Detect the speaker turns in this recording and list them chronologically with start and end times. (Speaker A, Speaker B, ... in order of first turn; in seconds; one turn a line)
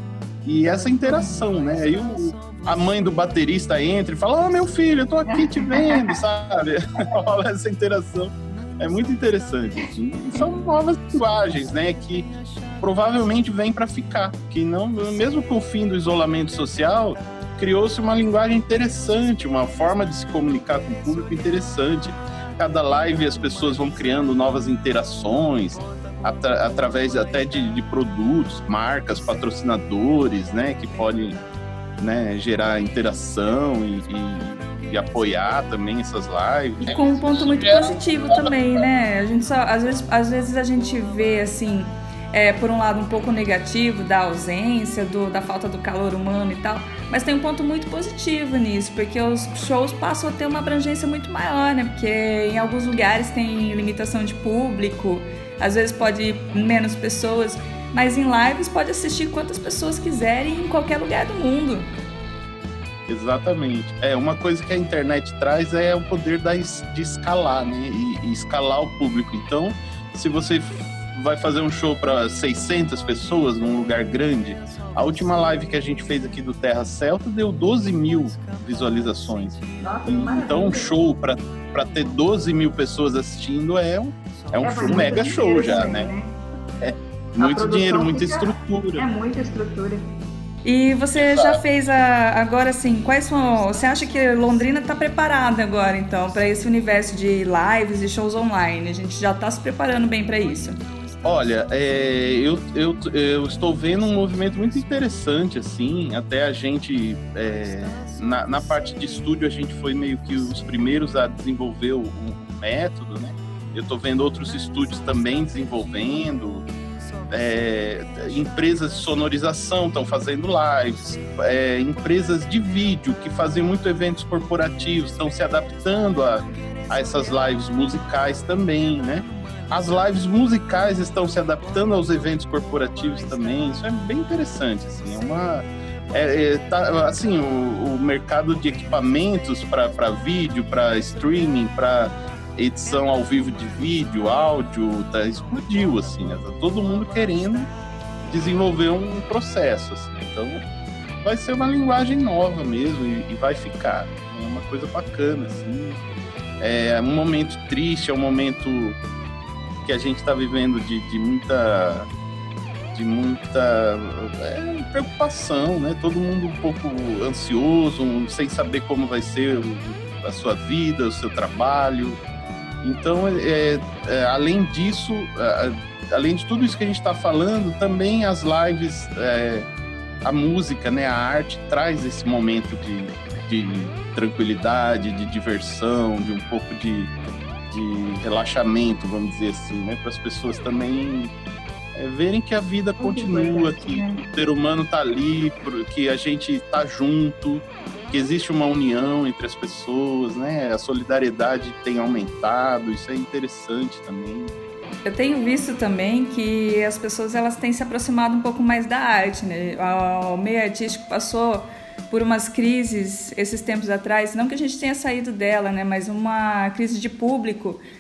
Speaker A: 0.4-31.4
Speaker B: 1.1-1.4
Speaker B: 5.3-6.1
Speaker A: 32.0-38.9
Speaker B: 36.8-38.0
Speaker C: 36.9-61.9
Speaker A: 63.1-86.1
Speaker B: 79.8-80.9
Speaker B: 84.6-86.4
Speaker A: 86.8-89.0
Speaker B: 87.4-90.1
Speaker C: 90.6-100.8
Speaker A: 91.1-91.6
Speaker A: 101.2-116.7
Speaker A: 117.3-147.7
Speaker A: 148.2-150.6
Speaker A: 151.2-156.0
Speaker A: 156.6-159.0
Speaker A: 159.8-162.1
Speaker A: 162.9-172.2
Speaker A: 172.8-179.7
Speaker A: 180.2-187.1
Speaker A: 187.7-191.3
Speaker A: 191.9-204.5
Speaker B: 193.0-194.2
Speaker C: 205.0-217.8